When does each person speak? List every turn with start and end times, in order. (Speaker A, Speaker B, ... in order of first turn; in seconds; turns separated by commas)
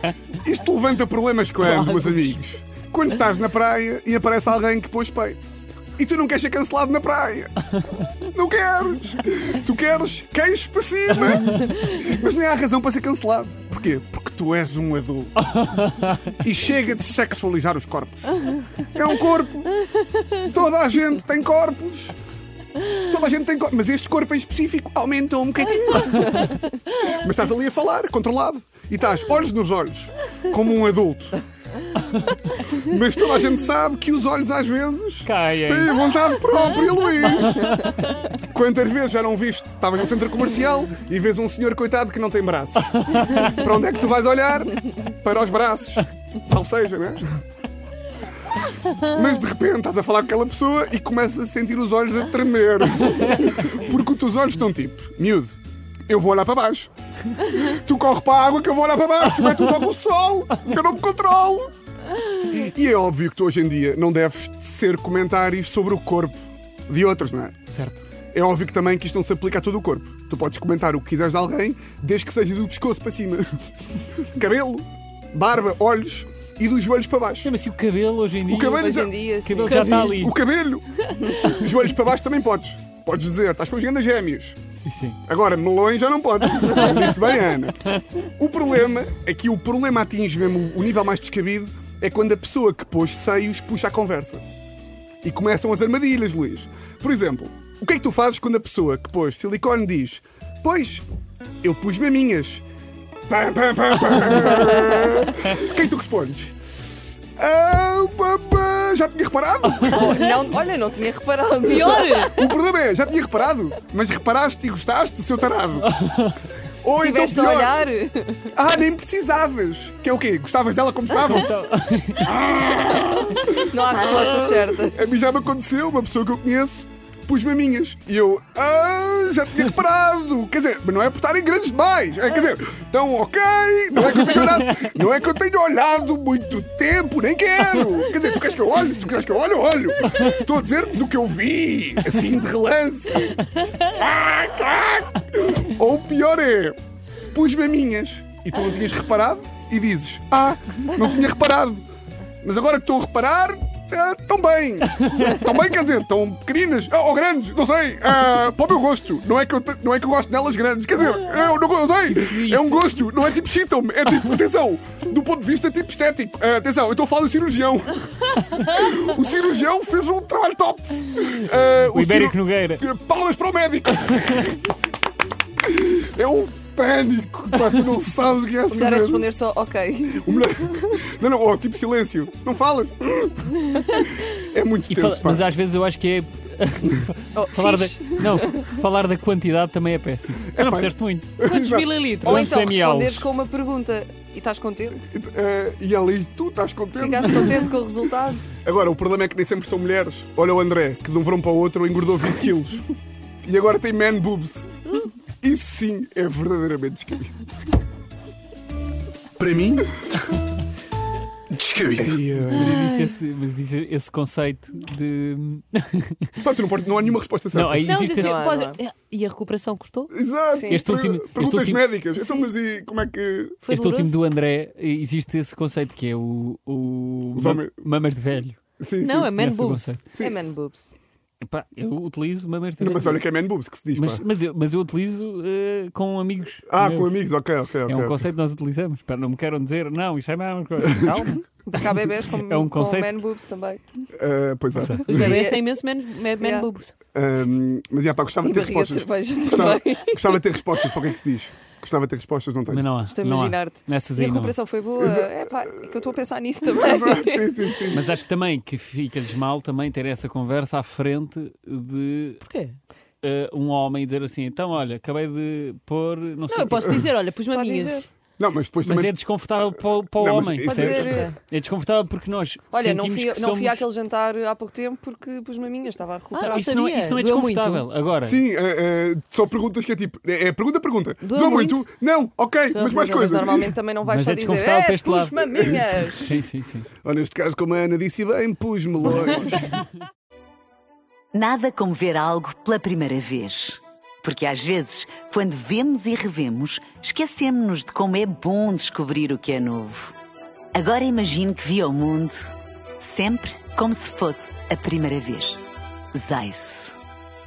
Speaker A: 0.4-7.5, Speaker B: 1.8-2.1, Speaker A: 8.2-15.3, Speaker C: 15.6-16.2, Speaker A: 16.4-18.2, Speaker A: 18.8-19.7, Speaker A: 20.4-22.1, Speaker A: 23.0-31.4, Speaker A: 32.7-37.8, Speaker C: 35.2-36.0, Speaker C: 37.4-37.8, Speaker A: 38.3-47.2, Speaker C: 43.1-43.4, Speaker A: 48.9-55.5, Speaker A: 56.1-61.7, Speaker A: 62.4-67.6, Speaker C: 67.7-68.0, Speaker A: 68.3-73.5, Speaker A: 74.2-77.5, Speaker C: 77.4-80.3, Speaker A: 78.4-84.6, Speaker D: 78.7-80.0, Speaker B: 79.7-80.1, Speaker C: 84.8-85.2, Speaker A: 85.2-94.4, Speaker A: 95.2-101.0, Speaker A: 101.6-102.6, Speaker A: 103.3-106.5, Speaker A: 107.4-110.2, Speaker D: 109.9-112.4, Speaker B: 111.6-112.4, Speaker A: 112.3-116.0, Speaker C: 115.9-116.3, Speaker A: 116.8-117.7, Speaker D: 117.0-118.5, Speaker A: 118.5-121.5, Speaker C: 121.2-122.3, Speaker A: 122.2-146.8, Speaker D: 123.5-125.0, Speaker C: 134.2-134.8, Speaker A: 147.3-151.8, Speaker A: 152.4-174.7, Speaker C: 162.1-163.0, Speaker C: 171.8-172.8, Speaker A: 175.6-179.3, Speaker D: 178.7-180.4, Speaker A: 180.2-185.5, Speaker C: 184.9-191.3, Speaker D: 187.3-188.7, Speaker A: 190.5-192.4, Speaker B: 191.4-192.4, Speaker D: 192.2-195.0, Speaker C: 192.2-193.3, Speaker A: 195.1-197.7, Speaker D: 197.0-198.5, Speaker A: 198.6-202.8, Speaker A: 203.4-204.7, Speaker A: 205.4-207.3, Speaker A: 209.4-210.2, Speaker A: 211.5-212.8, Speaker B: 212.5-213.2, Speaker C: 212.5-216.3, Speaker A: 216.4-217.9, Speaker C: 217.5-218.3, Speaker B: 217.8-220.1, Speaker D: 218.1-218.8, Speaker A: 220.1-223.6, Speaker D: 220.5-220.8, Speaker C: 220.7-221.8, Speaker B: 223.6-224.2, Speaker C: 223.7-228.6, Speaker A: 227.3-227.7, Speaker A: 228.8-229.4, Speaker B: 229.0-230.1, Speaker C: 229.3-230.0, Speaker A: 230.1-230.4, Speaker D: 230.2-230.9, Speaker C: 231.4-233.2, Speaker A: 232.8-234.2, Speaker C: 233.9-237.2, Speaker A: 236.7-238.2, Speaker C: 237.9-243.2, Speaker A: 240.8-241.3, Speaker D: 241.7-243.8, Speaker A: 244.2-245.5, Speaker C: 244.7-245.1, Speaker B: 245.1-246.9, Speaker D: 245.1-245.7, Speaker D: 246.4-246.7, Speaker A: 247.1-252.8, Speaker D: 248.4-250.3, Speaker C: 252.7-254.6, Speaker D: 253.1-257.7, Speaker A: 255.0-255.5, Speaker A: 256.7-258.1, Speaker C: 257.9-262.4, Speaker B: 262.4-262.8, Speaker C: 263.2-267.1, Speaker B: 266.5-268.1, Speaker D: 267.5-268.1, Speaker A: 268.4-269.1, Speaker C: 268.8-273.9, Speaker A: 270.1-271.2, Speaker D: 270.6-271.3, Speaker B: 271.1-271.3, Speaker D: 272.7-276.6, Speaker B: 276.3-277.9, Speaker C: 276.4-278.4, Speaker A: 278.2-283.7, Speaker B: 281.2-281.8, Speaker D: 282.8-286.3, Speaker C: 284.0-286.9, Speaker A: 287.0-289.8, Speaker E: 291.3-300.1, Speaker E: 300.7-305.6, Speaker E: 306.1-306.9